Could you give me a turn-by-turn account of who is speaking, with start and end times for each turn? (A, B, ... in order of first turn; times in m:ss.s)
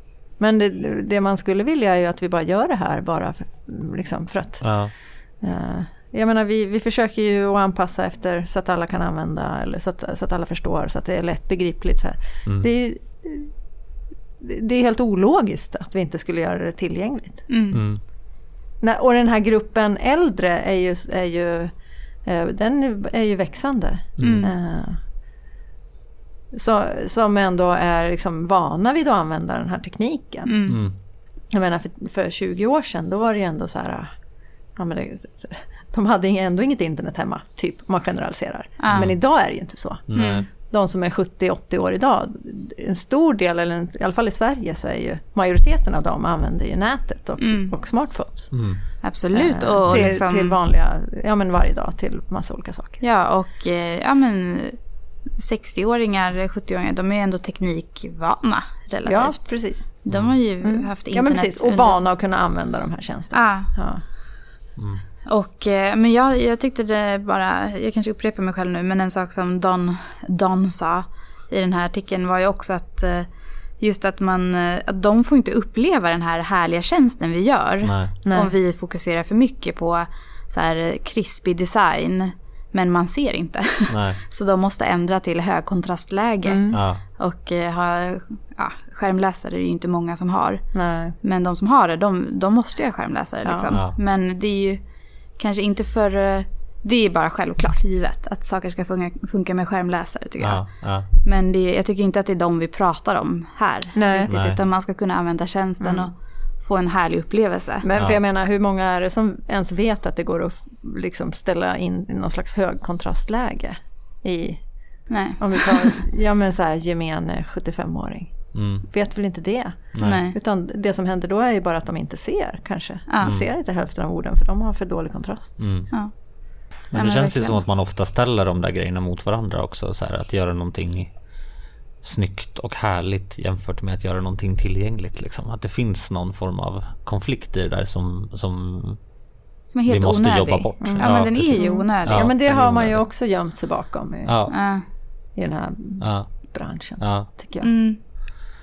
0:00.4-0:13.5 A
0:04.6-0:04.9 B
0:12.4-0:12.7 B
0:14.4-0:17.5 A
0:17.5-0:17.8 C
0:17.7-0:18.0 B
0:18.8-0:25.0 A
0:24.2-0:24.5 B
0:24.2-0:24.5 C
0:26.5-0:30.6 A
0:30.5-0:30.8 C
0:30.7-0:31.0 B
0:31.5-0:34.1 A
0:34.8-0:48.7 A
0:38.8-0:39.1 C
0:38.9-0:39.2 B
0:40.1-0:40.5 B
0:40.2-0:40.5 C
0:47.4-0:47.7 C
0:48.5-0:48.8 B
0:49.0-0:50.6 C
0:49.3-0:53.0 A
0:53.0-0:54.8 C
0:55.4-1:02.0 C
0:59.0-1:00.0 A
1:00.1-1:00.4 B
1:00.6-1:04.0 A
1:03.3-1:03.7 C
1:04.8-1:05.0 B
1:05.3-1:30.7 C
1:17.8-1:18.1 B
1:18.2-1:18.5 A
1:23.9-1:24.2 B
1:26.5-1:26.8 A
1:26.7-1:27.0 B
1:30.7-1:31.2 A
1:31.2-1:34.8 C
1:33.4-1:33.8 A
1:35.4-1:47.9 C
1:40.4-1:41.1 B
1:44.0-1:44.3 A
1:44.3-1:44.6 B
1:45.8-1:46.1 A
1:47.8-2:05.8 A
1:55.1-1:56.0 C
1:58.5-1:58.9 B
1:59.9-2:00.3 B
2:00.0-2:00.4 C
2:03.1-2:03.3 C
2:05.6-2:05.9 B
2:05.9-2:07.6 C
2:06.9-2:11.2 B
2:12.0-2:19.1 B
2:19.7-2:22.3 C
2:19.9-2:23.1 B
2:20.8-2:24.4 A
2:24.2-2:24.6 B
2:24.5-2:24.8 C
2:25.4-2:27.7 A
2:26.0-2:27.3 B
2:27.6-2:28.0 C